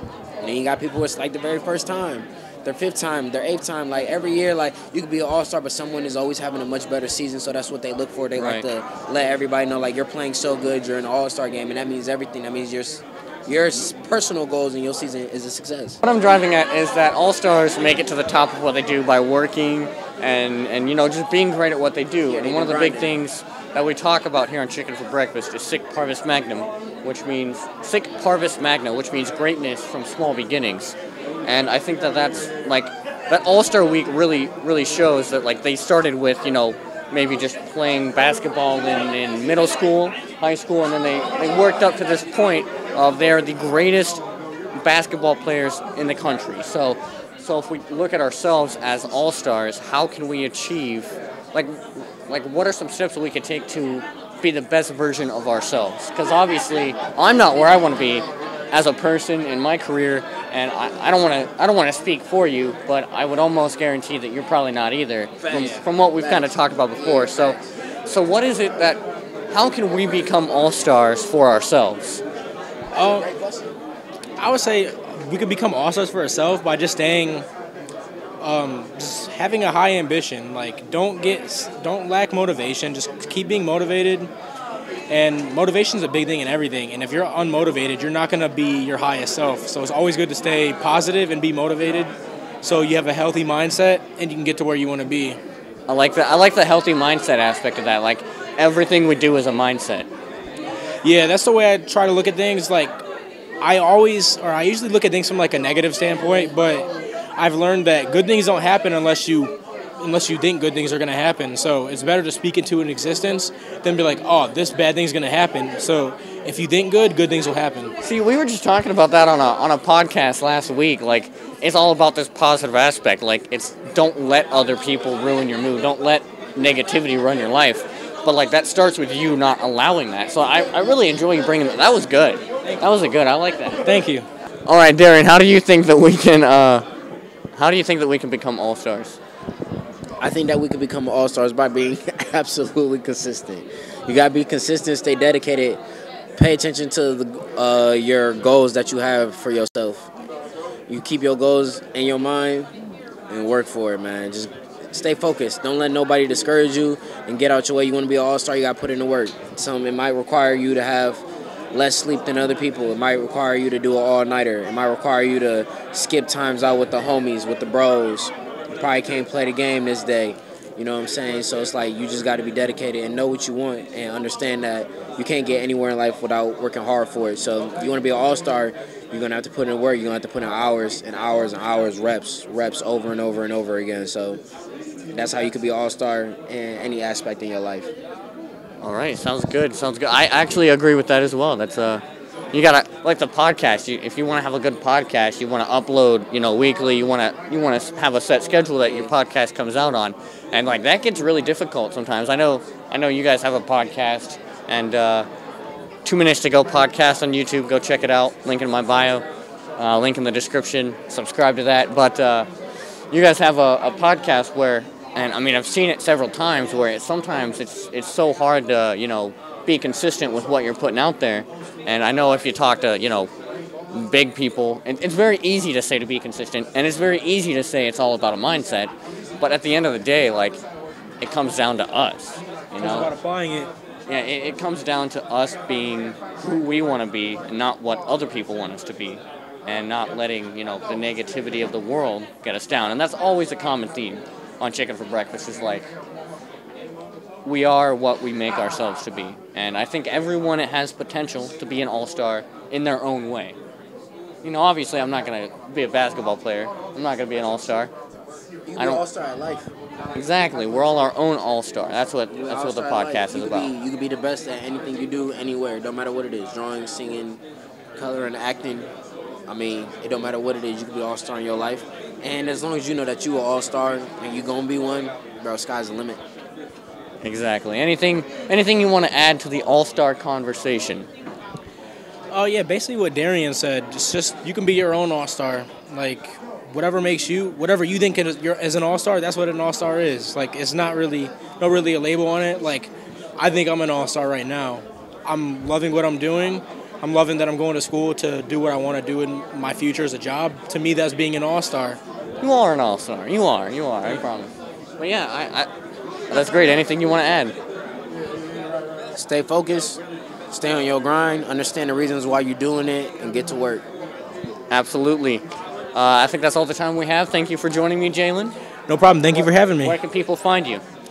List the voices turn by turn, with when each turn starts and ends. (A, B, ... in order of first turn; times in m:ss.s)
0:00.4-0:16.0 A
0:08.4-0:08.7 B
0:16.0-0:44.2 B
0:22.3-0:23.2 A
0:44.8-1:12.2 B
1:05.4-1:07.6 A
1:12.9-1:13.3 C
1:13.0-1:13.7 A
1:14.4-1:17.5 C
1:18.4-1:24.3 C
1:25.1-1:35.4 C
1:35.9-1:40.1 B
1:41.0-1:43.0 C
1:43.6-1:57.9 C
1:58.0-2:13.9 B
2:13.8-2:14.3 C
2:14.7-2:16.9 B
2:17.6-2:19.2 B
2:20.2-2:25.8 A
2:26.4-2:30.1 A
2:30.9-2:32.7 A
2:33.3-3:04.4 A
3:05.1-3:07.9 A
3:08.8-3:25.3 B
3:26.0-3:29.2 B
3:29.8-3:32.5 B
3:33.1-3:43.3 B
3:43.9-3:50.6 B
3:51.2-3:53.1 B
3:52.8-3:53.7 C
3:54.1-4:05.9 B
4:07.4-4:13.6 B
4:14.4-4:17.9 B
4:18.6-4:19.7 A
4:18.8-4:19.0 B
4:20.1-4:23.7 B
4:22.3-4:27.4 A
4:28.0-4:28.9 A
4:29.5-4:36.2 A
4:37.2-4:41.1 B
4:42.3-5:02.0 C
5:02.4-5:05.7 B
5:06.3-5:07.6 B
5:09.1-5:13.8 A
5:14.7-5:18.5 B
5:18.9-5:20.0 C
5:19.3-5:20.8 B